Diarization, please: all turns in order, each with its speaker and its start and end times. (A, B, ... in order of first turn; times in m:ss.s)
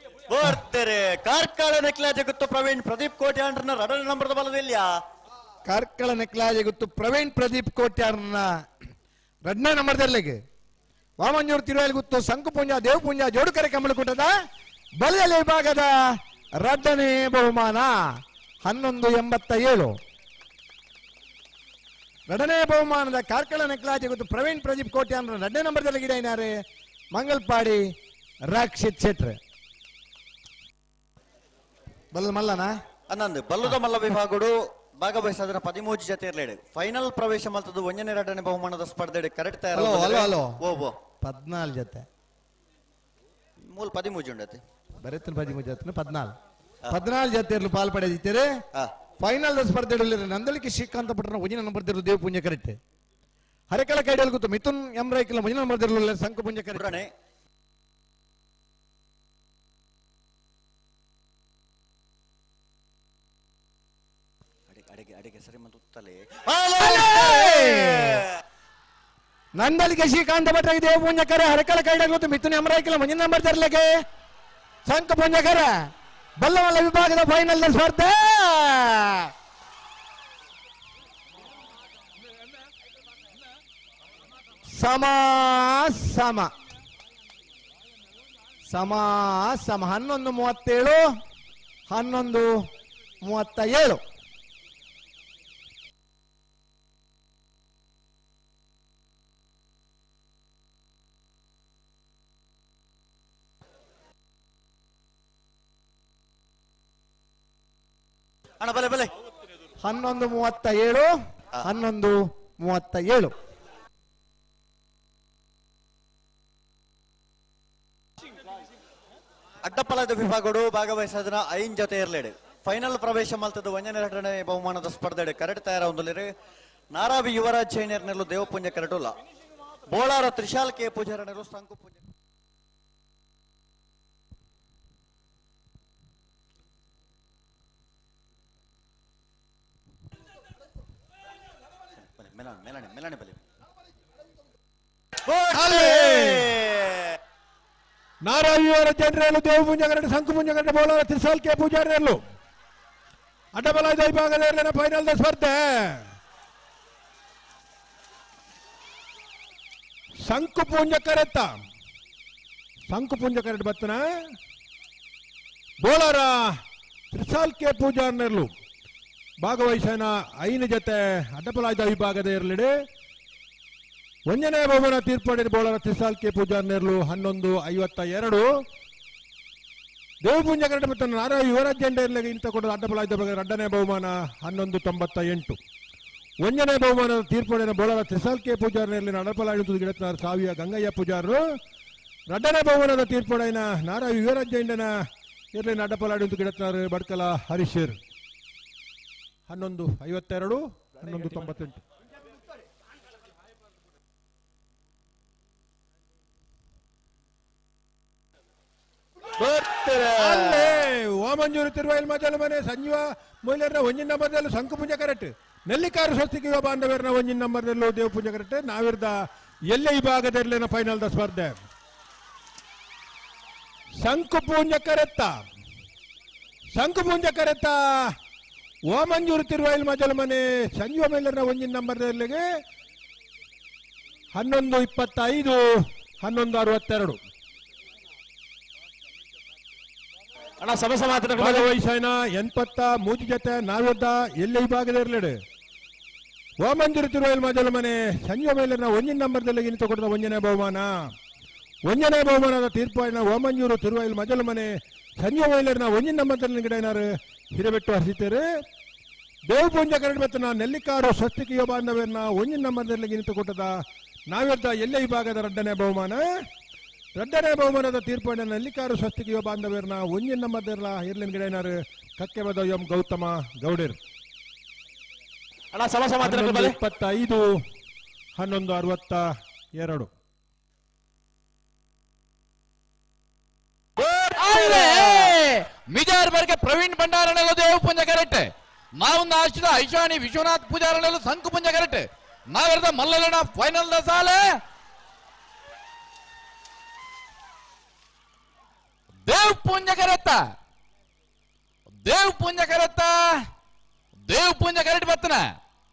0:00.3-0:04.9 A
0:05.7-0:08.5 B
0:09.4-0:10.4 B
0:11.2-0:14.3 B
0:15.0-0:15.9 B
0:16.6-0:18.0 B
0:18.6-0:20.0 B
0:22.3-0:26.5 B
0:27.1-0:27.8 B
0:28.5-0:29.4 B
0:32.1-0:32.7 B
0:33.1-0:41.0 A
0:39.7-0:40.6 B
0:41.2-0:42.0 B
0:43.6-0:44.6 A
0:45.0-0:46.3 B
0:46.9-0:48.5 B
0:49.2-0:52.8 B
0:53.7-0:57.0 B
0:56.7-0:57.1 A
1:04.7-1:08.2 A
1:06.8-1:08.2 B
1:09.6-1:13.9 B
1:14.8-1:15.8 B
1:16.4-1:19.3 B
1:24.7-1:26.5 B
1:28.7-1:31.0 B
1:31.9-1:32.6 B
1:33.2-1:34.0 B
1:48.6-1:49.1 A
1:49.8-1:51.1 B
1:51.6-1:53.3 B
1:59.6-2:06.3 A
2:06.9-2:09.2 A
2:09.9-2:12.0 A
2:22.1-2:23.4 A
2:25.3-2:27.2 A
2:25.4-2:26.6 C
2:28.2-2:32.2 C
2:33.5-2:36.1 C
2:40.2-2:41.5 C
2:42.9-2:44.0 C
2:45.8-2:46.5 C
2:47.1-2:48.5 C
2:49.4-2:52.7 C
2:54.3-2:58.5 C
3:00.2-3:05.6 C
3:06.4-3:11.4 C
3:12.3-3:14.9 C
3:15.5-3:18.0 C
3:19.5-3:21.8 C
3:29.4-3:30.7 A
3:30.1-3:41.6 C
3:44.0-3:45.4 C
3:46.8-3:48.1 C
3:48.9-3:52.4 C
3:54.3-3:57.2 C
4:00.6-4:01.7 D
4:01.3-4:05.4 C
4:06.6-4:11.1 C
4:11.8-4:18.4 C
4:19.5-4:23.7 C
4:24.3-4:26.3 C
4:27.2-4:34.0 C
4:35.7-4:36.8 D
4:36.2-4:37.6 C
4:38.4-4:40.1 C
4:44.2-4:54.4 E
4:44.6-4:45.1 D
4:59.2-5:00.4 E
5:02.0-5:03.2 E
5:04.3-5:05.4 E